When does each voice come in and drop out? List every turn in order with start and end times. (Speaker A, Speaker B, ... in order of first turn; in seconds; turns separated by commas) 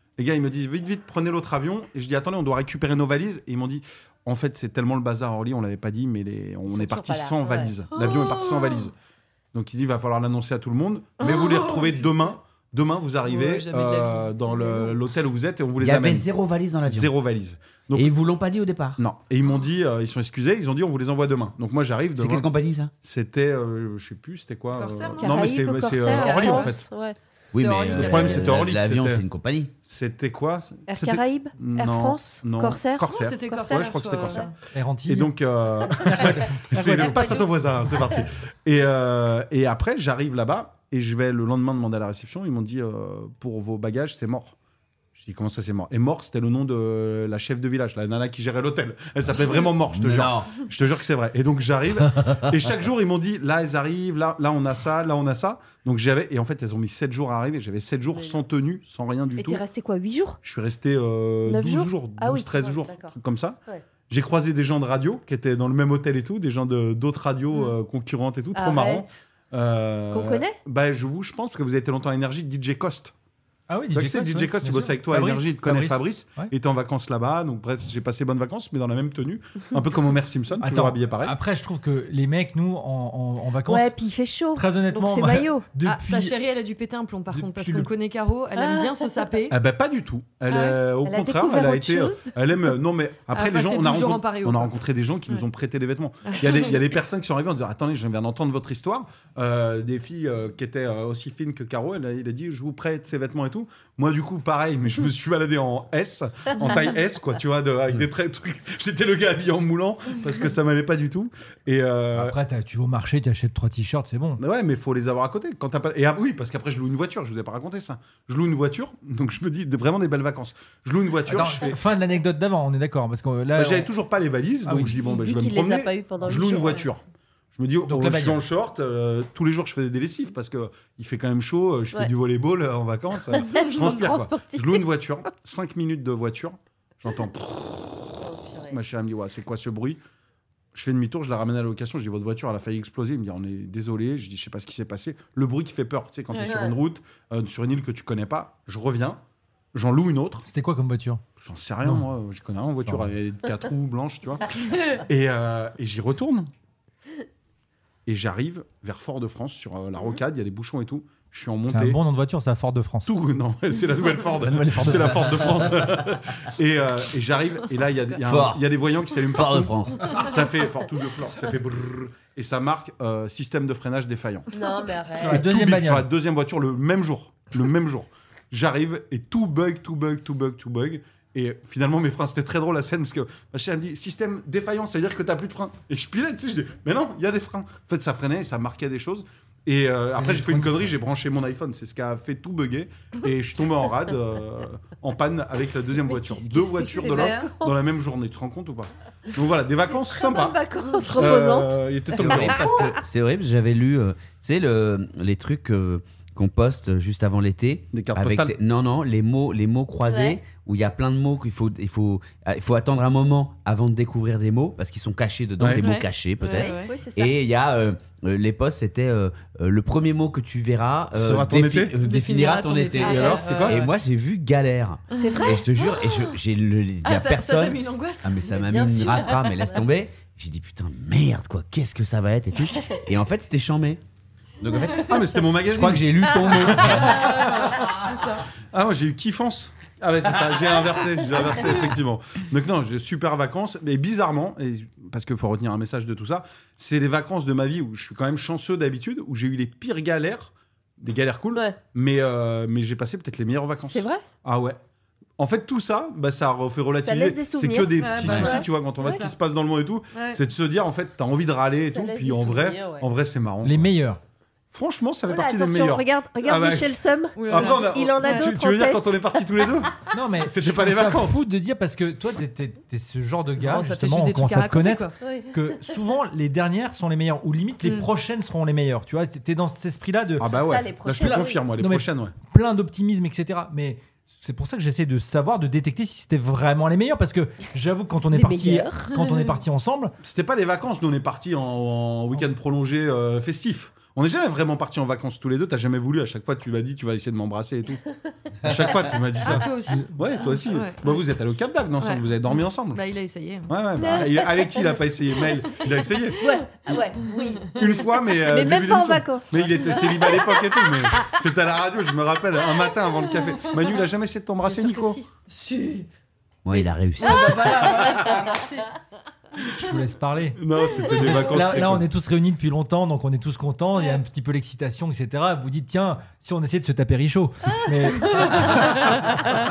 Speaker A: 0.2-8.9, Speaker B: 6.7-7.7, Speaker C: 7.9-8.9, Speaker A: 9.5-16.3, Speaker C: 11.2-12.1, Speaker C: 13.2-14.9, Speaker D: 15.8-17.1, Speaker A: 16.9-18.1, Speaker D: 17.9-19.0, Speaker A: 19.0-22.5, Speaker D: 22.1-22.9, Speaker A: 23.0-26.9, Speaker C: 24.7-25.4, Speaker B: 25.2-27.2, Speaker C: 26.1-26.8, Speaker D: 27.5-29.7, Speaker C: 27.6-28.7, Speaker A: 27.9-29.2, Speaker A: 29.8-34.5, Speaker B: 30.9-34.5, Speaker C: 33.1-34.5, Speaker E: 34.7-35.3, Speaker A: 35.1-44.5, Speaker E: 35.9-37.5, Speaker B: 37.1-37.5, Speaker A: 45.2-59.6, Speaker D: 49.9-50.5, Speaker B: 58.1-58.4, Speaker B: 59.4-60.4, Speaker A: 60.4-73.1, Speaker B: 61.4-63.1, Speaker C: 67.5-67.8, Speaker B: 68.5-69.2, Speaker B: 70.1-70.6, Speaker E: 73.7-76.5, Speaker A: 73.9-81.3, Speaker E: 80.6-83.9, Speaker B: 83.7-85.7, Speaker E: 84.5-86.4, Speaker C: 85.8-89.6, Speaker E: 87.3-87.9, Speaker B: 88.6-89.0, Speaker A: 89.5-112.4, Speaker C: 90.5-90.8, Speaker B: 91.0-92.3, Speaker C: 93.3-94.7, Speaker C: 96.3-96.8, Speaker E: 112.1-114.4, Speaker A: 114.4-121.8, Speaker E: 121.3-123.9, Speaker A: 123.6-127.0, Speaker E: 124.7-124.9, Speaker B: 124.9-126.9, Speaker A: 127.5-137.7, Speaker E: 127.9-128.4, Speaker B: 133.3-134.9, Speaker B: 138.2-138.8, Speaker A: 138.7-140.0, Speaker A: 140.7-149.2, Speaker C: 146.3-146.6, Speaker B: 146.3-146.8, Speaker A: 149.7-150.5, Speaker E: 150.5-151.2, Speaker A: 151.4-156.5, Speaker C: 154.7-155.0, Speaker A: 158.1-162.0, Speaker E: 161.7-163.1, Speaker A: 163.1-174.5, Speaker E: 164.4-165.4, Speaker D: 168.2-168.7, Speaker D: 169.3-170.2, Speaker B: 174.5-175.4, Speaker A: 175.1-203.0, Speaker E: 175.2-176.1, Speaker E: 190.1-190.9, Speaker B: 196.1-197.8, Speaker B: 200.0-203.0, Speaker D: 202.2-234.0, Speaker A: 207.9-208.6, Speaker B: 210.1-210.4, Speaker C: 215.8-216.9, Speaker B: 216.4-217.3, Speaker A: 221.1-221.9, Speaker C: 222.0-223.9, Speaker A: 223.0-223.8, Speaker C: 225.1-226.4, Speaker B: 225.1-225.6, Speaker C: 227.0-229.7, Speaker B: 228.6-229.8, Speaker D: 234.6-237.6, Speaker C: 234.7-235.1, Speaker A: 235.1-237.9, Speaker C: 236.7-238.5, Speaker A: 238.6-254.8, Speaker B: 253.9-254.2, Speaker A: 255.4-263.9, Speaker B: 257.0-259.2, Speaker C: 258.0-259.4, Speaker C: 260.1-260.4, Speaker B: 261.9-263.1, Speaker E: 263.6-264.2, Speaker A: 264.7-271.4, Speaker B: 265.3-269.7, Speaker C: 267.4-268.5, Speaker E: 270.1-280.5, Speaker C: 273.6-275.1, Speaker B: 275.2-276.0, Speaker C: 277.8-278.1, Speaker A: 280.4-282.3, Speaker B: 280.5-281.6, Speaker E: 281.2-290.1, Speaker B: 288.3-289.2, Speaker A: 290.2-298.0, Speaker A: 298.6-303.0, Speaker C: 299.4-301.2, Speaker E: 299.5-300.3, Speaker C: 302.0-303.7, Speaker A: 303.7-306.4, Speaker B: 304.0-305.0, Speaker B: 306.4-311.2, Speaker A: 307.7-315.2, Speaker C: 313.4-314.0, Speaker B: 314.6-315.3, Speaker C: 315.5-316.1, Speaker D: 316.6-317.8, Speaker C: 316.7-318.9, Speaker B: 317.3-318.6, Speaker A: 317.9-318.4, Speaker E: 319.7-329.6, Speaker A: 320.6-322.1